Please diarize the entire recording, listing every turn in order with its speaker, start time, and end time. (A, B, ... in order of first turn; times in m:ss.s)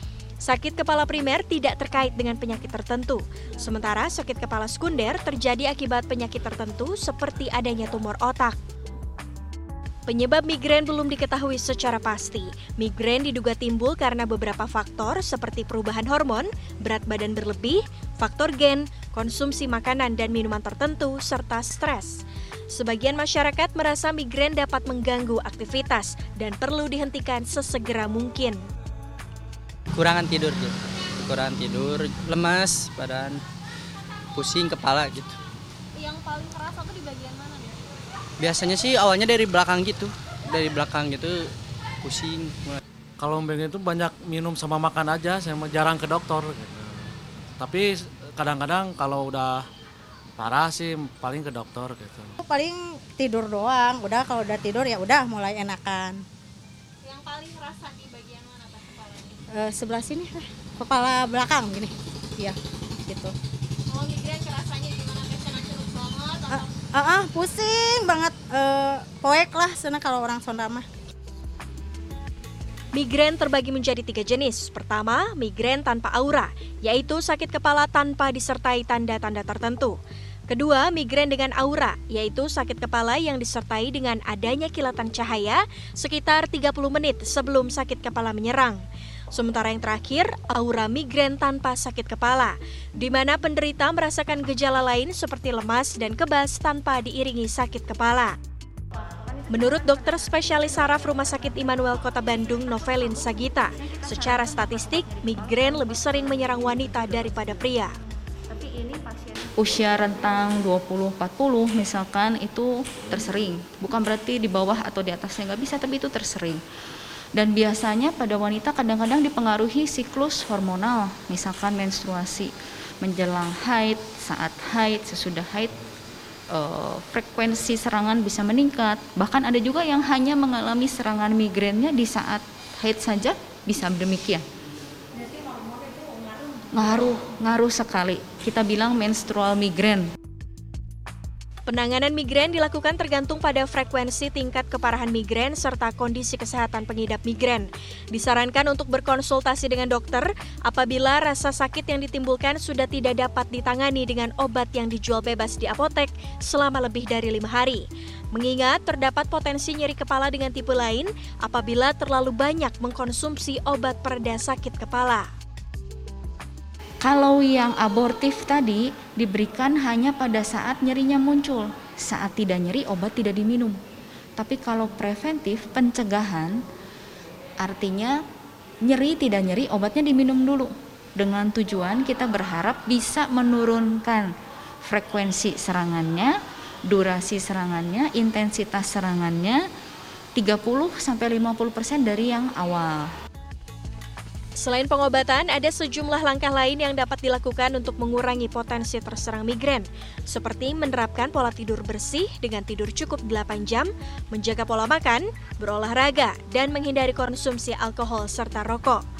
0:00.4-0:08.6 A
0:10.1-0:28.6 A
0:29.9-0:33.4 B
0:34.3-0:35.4 B
0:35.9-0:37.8 C
0:38.4-0:41.4 B
0:42.0-0:42.8 B
0:43.2-0:49.6 D
0:50.4-0:52.4 D
0:52.4-0:56.2 E
0:57.0-0:59.4 C
0:59.5-1:03.3 E
1:03.9-1:06.7 C
1:06.5-1:10.8 E
1:12.9-1:20.0 A
1:20.5-1:38.4 A
1:39.5-1:47.9 A
1:43.9-1:45.9 F
1:48.5-1:56.6 F
1:57.3-2:05.8 F
2:06.5-2:14.4 F
2:15.2-2:16.5 C
2:16.7-2:20.1 F
2:21.7-2:45.3 A
2:47.0-2:53.8 F
2:54.4-2:56.6 F
2:57.6-2:58.2 F
2:58.8-3:04.3 F
3:04.8-3:09.6 F
3:10.4-3:13.1 F
3:14.6-3:29.0 A